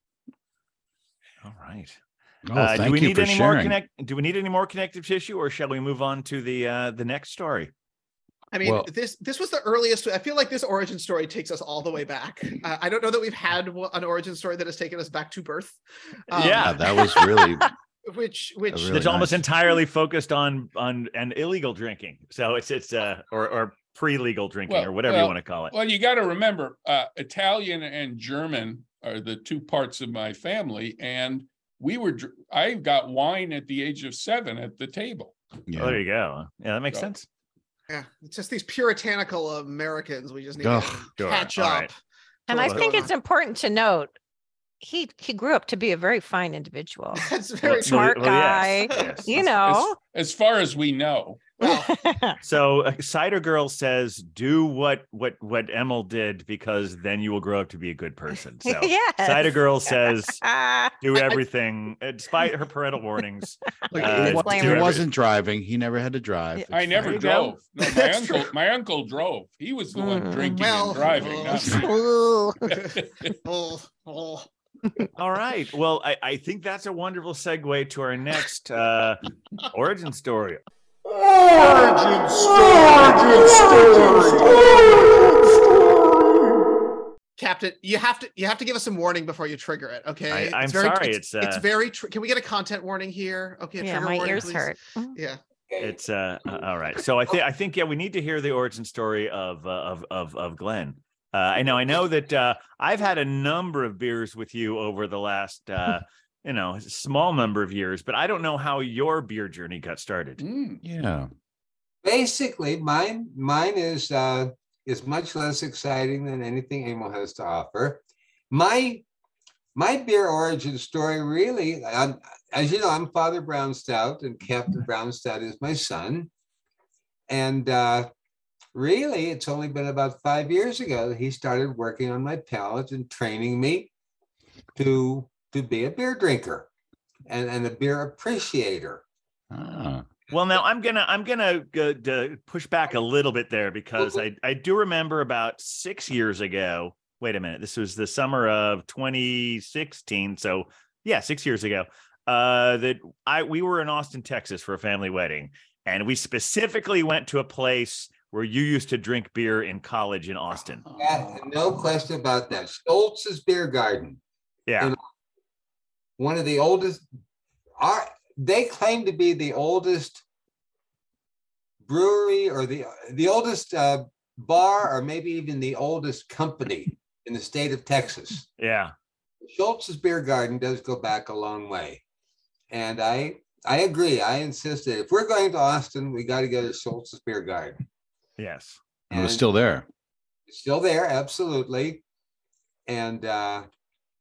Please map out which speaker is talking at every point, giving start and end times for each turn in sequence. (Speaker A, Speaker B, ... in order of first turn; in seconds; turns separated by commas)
Speaker A: 1.4-2.0, Speaker B: 2.5-3.8, Speaker A: 2.5-7.7, Speaker C: 8.5-15.8, Speaker B: 8.6-8.9, Speaker C: 16.3-17.1, Speaker A: 16.4-16.8, Speaker B: 16.4-17.7, Speaker D: 17.2-17.6, Speaker C: 18.1-19.1, Speaker B: 18.7-19.4, Speaker A: 18.9-25.7, Speaker E: 24.7-35.4, Speaker B: 35.7-36.0, Speaker A: 35.8-37.3, Speaker C: 37.9-42.0, Speaker B: 40.6-41.1, Speaker A: 41.2-41.9, Speaker C: 42.5-43.1, Speaker D: 42.5-44.1, Speaker D: 44.8-50.0, Speaker C: 47.1-48.2, Speaker A: 47.6-49.3, Speaker C: 48.9-49.5, Speaker E: 49.7-51.5, Speaker C: 51.6-51.9, Speaker D: 51.6-52.4, Speaker A: 52.4-60.4, Speaker D: 58.6-61.4, Speaker A: 61.0-65.0, Speaker D: 63.9-65.0, Speaker B: 63.9-67.2, Speaker E: 66.7-71.9, Speaker A: 67.0-67.5, Speaker C: 67.8-68.5, Speaker D: 70.0-70.6, Speaker C: 70.5-71.9, Speaker D: 71.7-72.7, Speaker E: 72.7-73.3, Speaker C: 72.7-74.5, Speaker A: 75.2-80.6, Speaker C: 83.0-84.9, Speaker C: 87.4-95.4, Speaker A: 90.3-91.7, Speaker D: 93.8-95.2, Speaker F: 95.7-96.0, Speaker A: 95.8-110.4, Speaker E: 110.4-110.8, Speaker B: 110.8-111.3, Speaker F: 112.0-119.0, Speaker F: 119.8-126.3, Speaker F: 127.3-128.1, Speaker F: 128.7-133.9, Speaker F: 134.8-136.7, Speaker F: 137.3-139.0, Speaker B: 139.5-140.1, Speaker A: 140.3-160.8, Speaker F: 144.0-144.2, Speaker F: 161.0-164.2, Speaker A: 164.7-164.9, Speaker F: 166.2-167.0, Speaker F: 167.8-170.2, Speaker F: 171.8-178.5, Speaker A: 178.6-178.9, Speaker F: 179.4-182.0, Speaker F: 182.7-187.8, Speaker A: 188.4-188.8, Speaker F: 189.1-189.4, Speaker B: 189.1-189.9, Speaker F: 190.5-192.0, Speaker F: 192.9-193.7